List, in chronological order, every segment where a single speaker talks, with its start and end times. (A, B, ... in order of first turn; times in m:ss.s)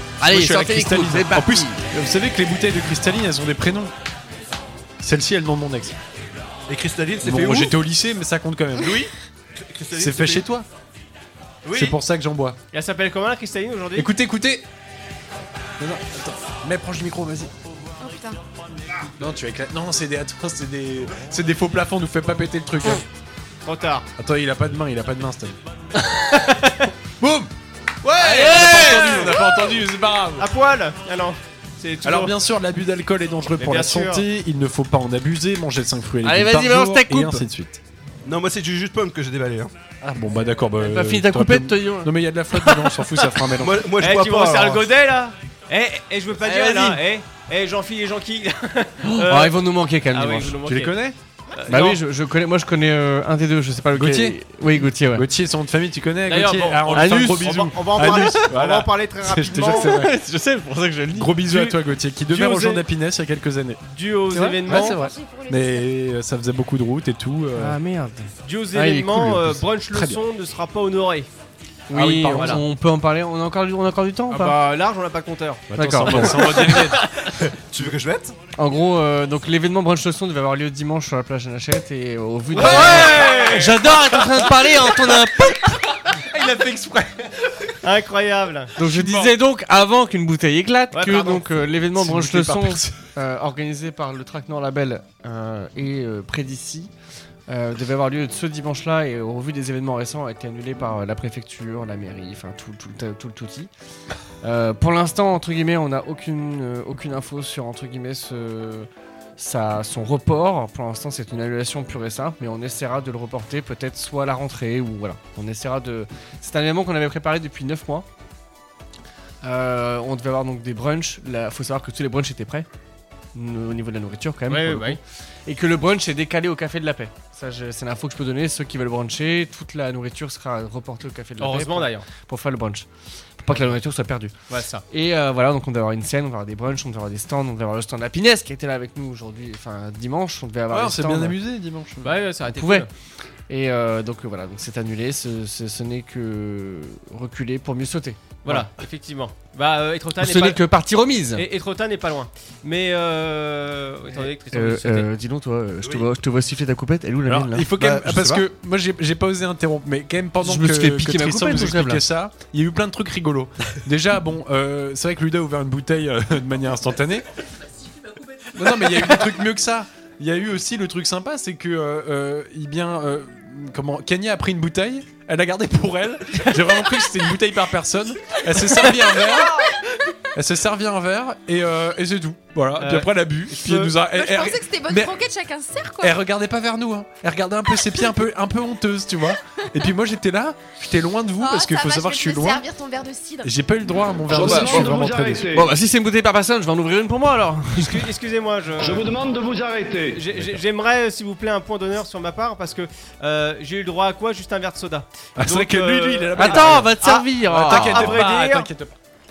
0:00.2-0:01.8 A
0:00.2-0:03.9 B
0:05.0-0:06.0 B
0:06.7-0:07.8 C
0:07.2-0:09.1 B
0:09.6-0:10.5 C
0:09.9-0:10.7 B
0:11.6-0:12.0 D
0:11.7-0:12.6 B
0:12.7-0:14.1 D
0:14.0-0:14.7 B
0:15.8-0:17.5 B
0:18.0-0:18.4 E
0:19.2-0:23.0 B
0:23.6-0:24.1 D
0:24.2-0:25.6 B
0:26.3-0:26.9 D
0:27.2-0:27.5 B
0:28.0-0:29.5 D
0:28.1-0:30.5 B
0:28.4-0:29.3 A
0:30.4-0:32.4 D
0:32.0-0:37.8 B
0:33.6-0:34.3 D
0:36.2-0:37.4 A
0:38.2-0:39.7 C
0:40.0-0:43.9 B
0:40.8-0:42.1 A
0:43.6-0:44.9 C
0:44.0-0:51.0 D
0:46.4-0:47.0 A
0:49.2-0:50.6 A
0:50.6-0:51.2 B
0:51.5-0:52.0 D
0:51.7-0:55.3 A
0:54.0-1:00.2 B
0:56.3-1:00.0 D
0:56.9-0:57.6 A
0:59.6-1:01.4 A
1:01.2-1:03.8 B
1:01.5-1:02.8 D
1:03.9-1:05.0 D
1:04.3-1:04.6 A
1:04.7-1:05.9 E
1:04.7-1:07.8 B
1:07.6-1:09.6 A
1:08.4-1:11.3 D
1:09.4-1:10.2 B
1:11.9-1:14.6 A
1:11.9-1:12.6 B
1:12.3-1:12.6 D
1:14.3-1:16.7 D
1:15.7-1:17.1 B
1:15.8-1:16.7 A
1:17.4-1:18.4 C
1:18.6-1:25.9 A
1:22.5-1:23.9 D
1:22.6-1:23.4 B
1:26.1-1:27.2 B
1:27.8-1:28.7 D
1:28.8-1:36.9 A
1:28.8-1:29.4 B
1:30.9-1:31.4 D
1:32.0-1:33.0 B
1:37.5-1:43.7 A
1:44.4-1:58.1 A
1:59.4-2:02.7 A
2:03.4-2:12.9 A
2:04.5-2:05.0 D
2:11.4-2:12.1 D
2:13.4-2:14.3 A
2:14.5-2:14.8 D
2:14.9-2:21.4 A
2:20.7-2:22.1 B
2:22.0-2:22.9 D
2:22.5-2:22.9 A
2:23.5-2:28.3 A
2:28.4-2:30.6 D
2:30.2-2:31.4 A
2:31.3-2:35.1 D
2:34.1-2:37.7 A
2:35.8-2:36.1 C
2:37.3-2:47.3 B
2:37.8-2:38.4 C
2:40.4-2:42.0 A
2:48.5-2:59.7 B
3:00.4-3:05.2 B
3:02.8-3:03.9 D
3:04.1-3:06.2 E
3:06.0-3:12.6 B
3:11.4-3:13.5 E
3:13.4-3:15.6 B
3:14.3-3:15.7 F
3:15.5-3:18.1 A
3:17.8-3:19.1 D
3:18.8-3:20.2 F
3:20.1-3:28.7 D
3:20.3-3:20.6 B
3:25.4-3:29.0 B
3:26.4-3:28.2 A